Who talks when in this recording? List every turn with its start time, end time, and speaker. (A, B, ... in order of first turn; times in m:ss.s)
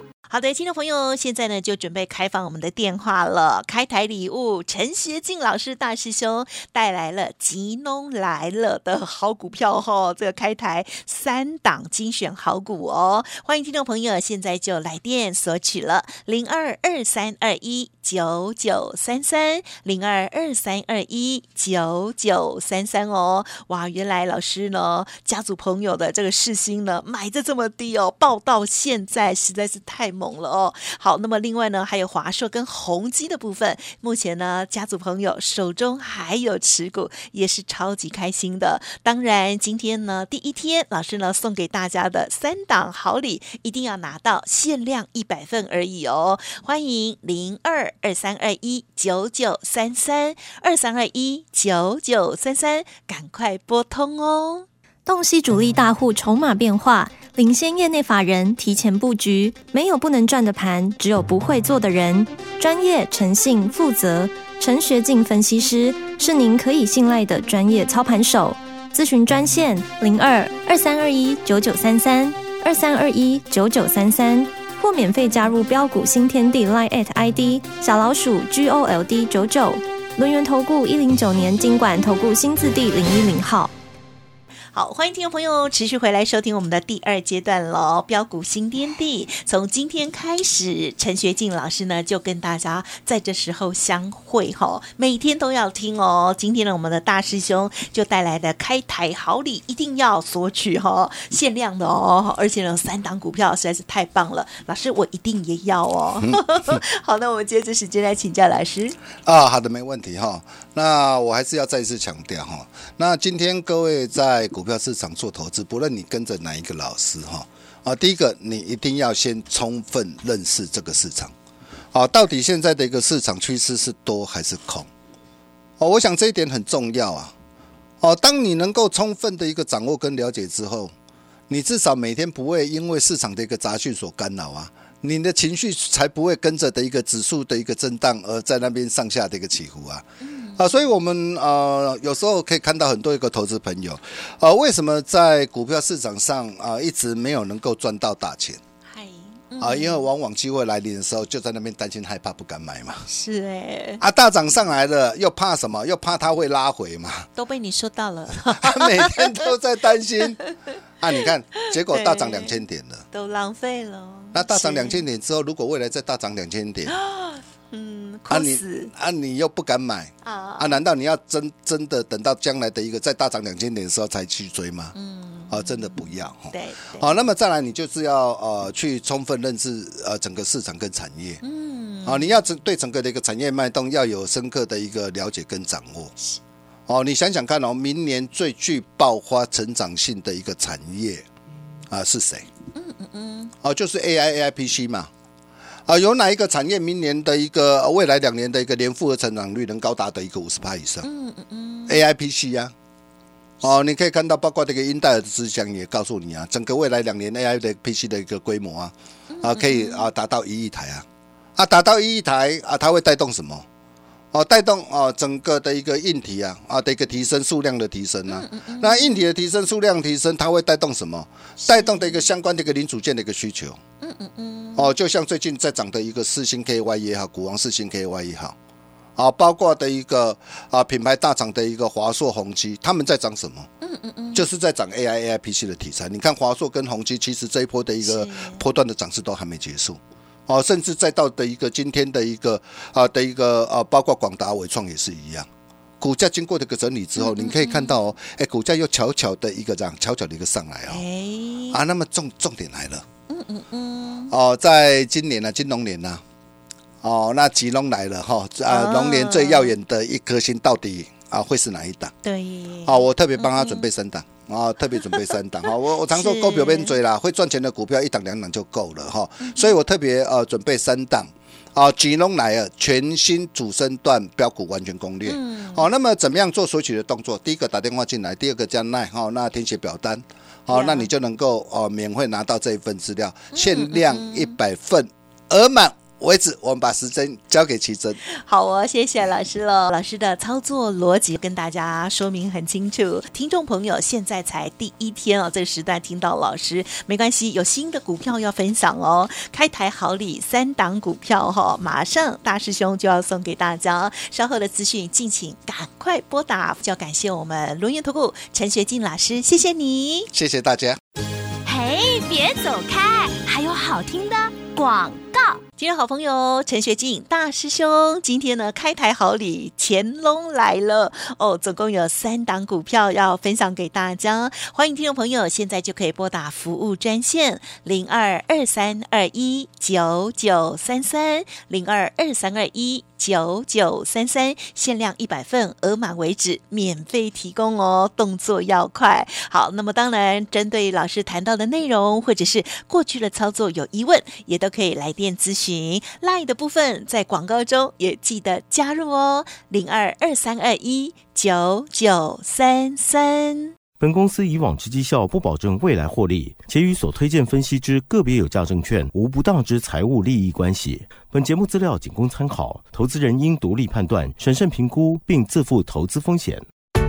0:00.3-0:54.7 A
0:55.1-1:23.7 B
1:24.7-1:49.0 A
1:46.2-1:46.8 C
1:49.2-2:01.3 C
2:01.9-2:04.9 C
2:05.8-2:07.3 C
2:08.0-2:10.9 C
2:11.5-2:20.1 C
2:20.2-2:20.8 A
2:20.6-2:28.6 C
2:28.9-2:30.1 A
2:29.6-2:33.1 C
2:33.1-2:34.0 A
2:34.0-2:37.3 C
2:37.4-2:39.5 A
2:38.5-2:40.4 C
2:41.0-2:43.0 C
2:41.7-2:42.6 A
2:43.1-2:45.0 A
2:44.3-2:46.9 C
2:46.9-2:48.9 A
2:48.3-2:54.9 C
2:50.2-2:50.8 A
2:55.0-2:55.6 A
2:55.5-3:01.4 C
2:56.5-2:57.1 A
3:01.4-3:02.4 A
3:02.0-3:06.1 C
3:06.9-3:11.3 C
3:11.9-3:12.5 C
3:12.8-3:13.5 A
3:13.6-3:15.1 C
3:15.9-3:21.1 C
3:21.0-3:22.0 A
3:21.9-3:22.7 C
3:23.6-3:31.0 C
3:29.3-3:30.1 A
3:31.6-3:33.7 C
3:34.3-3:43.8 C
3:38.3-3:39.2 A
3:41.6-3:42.2 A
3:44.0-3:44.9 A
3:44.8-3:48.6 C
3:49.2-3:53.7 C
3:53.8-3:54.4 A
3:54.3-4:05.5 C
3:58.0-3:58.6 A
4:06.0-4:11.0 C
4:07.2-4:08.0 A
4:10.9-4:11.8 A
4:11.7-4:13.0 C
4:13.3-4:14.3 A
4:14.3-4:16.2 C
4:17.0-4:22.1 C
4:18.7-4:19.8 A
4:22.2-4:23.9 A
4:22.9-4:48.2 C
4:26.1-4:27.0 A
4:29.4-4:29.8 A
4:35.2-4:35.9 A
4:40.7-4:41.1 A
4:43.5-4:44.6 A
4:48.3-5:10.3 A
5:10.3-5:11.0 C
5:11.7-5:15.6 D
5:15.8-5:53.7 A
5:54.0-6:06.6 E